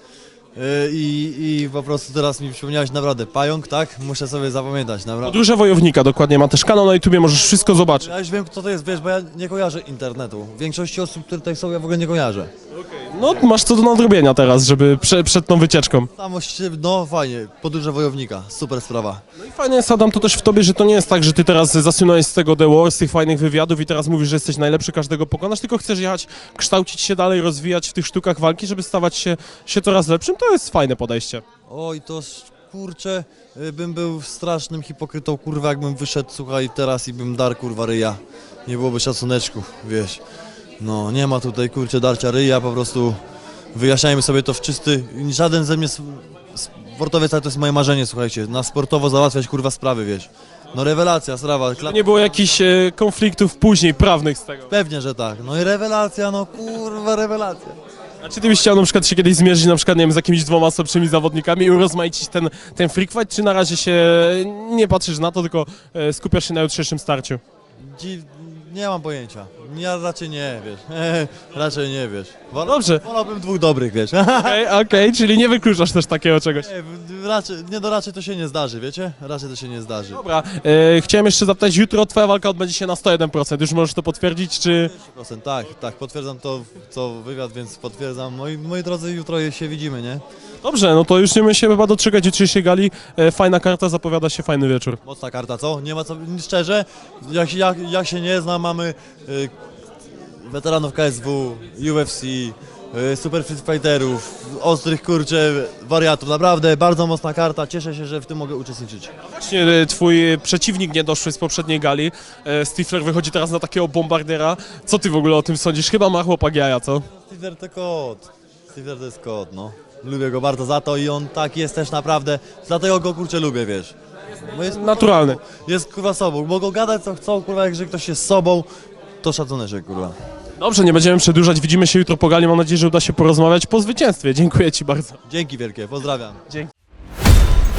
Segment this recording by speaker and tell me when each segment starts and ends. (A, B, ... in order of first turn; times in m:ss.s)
0:00.6-0:05.4 A
0:05.2-0:08.1 B
0:07.9-0:12.5 A
0:12.7-0:16.1 B
0:16.2-0:19.2 A
0:19.4-0:31.4 B
0:31.7-0:40.2 A
0:40.8-0:43.2 A
0:43.7-0:52.2 A
0:51.8-0:54.7 B
0:54.7-0:57.8 A
0:58.2-1:07.4 B
1:07.8-1:14.6 A
1:12.6-1:13.0 B
1:14.3-1:16.7 B
1:16.6-1:20.2 A
1:20.1-1:24.9 B
1:24.8-1:30.2 A
1:30.6-1:35.0 B
1:35.0-1:39.5 A
1:40.2-1:49.1 A
1:49.2-1:57.1 B
1:57.2-2:08.7 A
2:04.5-2:05.4 B
2:09.2-2:10.2 A
2:10.6-2:15.2 B
2:15.2-2:16.4 A